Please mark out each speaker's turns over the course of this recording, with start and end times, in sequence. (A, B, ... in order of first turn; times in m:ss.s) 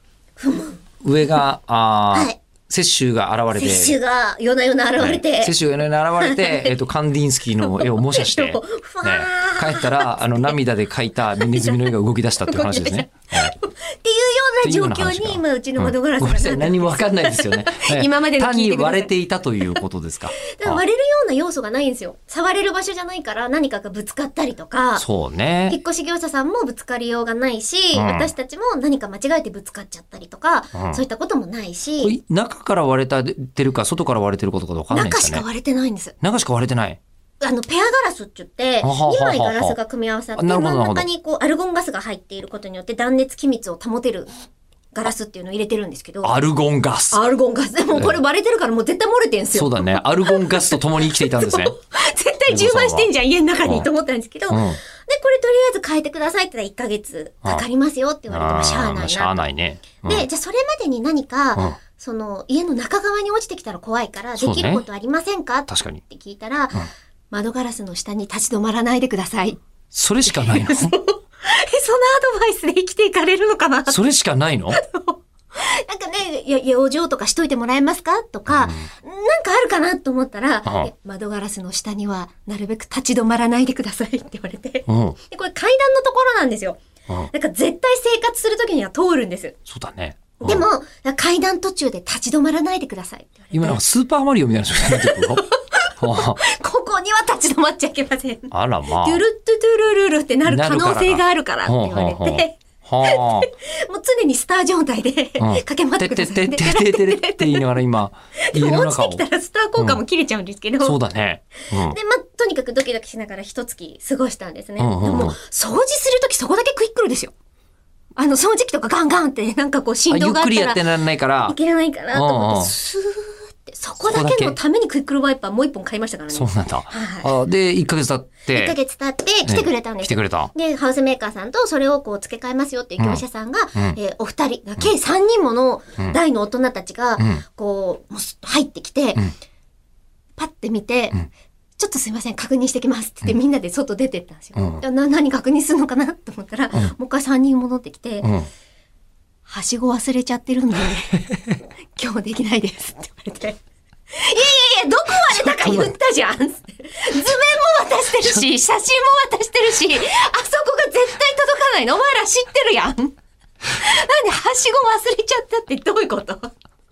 0:00.4-0:00.8 A
0:01.0-0:04.0 B
0:02.1-0:02.4 A
0:03.6-0:05.6 A
0:05.0-0:13.5 B
0:06.2-0:06.8 A
0:07.6-0:10.6 A
0:11.3-0:19.1 A
0:14.6-0:20.8 B
0:20.4-0:25.1 A
0:25.0-0:25.8 B
0:25.7-0:32.1 A
0:27.9-0:28.3 B
0:30.8-0:31.0 B
0:32.0-0:35.4 B
0:34.9-0:36.2 A
0:36.2-0:37.0 B
0:37.4-0:44.3 A
0:38.8-0:39.8 B
0:40.4-0:41.1 B
0:44.9-0:46.4 A
0:46.2-0:47.2 B
0:47.1-0:59.5 A
0:49.5-0:51.8 B
0:52.5-0:53.1 B
0:53.6-0:53.9 B
0:54.5-0:54.8 B
0:58.3-1:00.3 B
1:00.0-1:09.6 A
1:04.4-1:04.8 B
1:05.7-1:06.0 B
1:09.9-1:11.0 B
1:10.3-1:14.0 A
1:13.9-1:14.8 B
1:14.7-1:26.8 A
1:18.5-1:18.9 B
1:20.6-1:20.9 B
1:24.9-1:25.2 B
1:27.3-1:29.6 A
1:29.7-1:30.7 B
1:30.4-1:33.8 A
1:33.5-1:35.4 B
1:34.9-1:47.7 A
1:36.0-1:36.4 B
1:38.5-1:39.2 B
1:40.4-1:43.5 B
1:45.4-1:49.2 B
1:48.4-1:51.0 A
1:50.8-1:52.0 B
1:51.7-1:57.3 A
1:54.8-1:55.4 B
1:58.2-2:07.3 A
2:00.1-2:01.6 B
2:02.1-2:02.7 B
2:04.0-2:04.6 B
2:06.3-2:08.8 B
2:08.5-2:19.3 A
2:09.4-2:10.5 B
2:13.0-2:13.2 B
2:17.2-2:17.4 B
2:20.4-2:21.2 A
2:21.8-2:28.3 A
2:24.6-2:24.8 B
2:28.2-2:28.5 B
2:29.5-2:31.3 A
2:32.0-2:33.6 A
2:34.1-2:43.2 A
2:35.4-2:35.9 B
2:43.8-2:46.5 A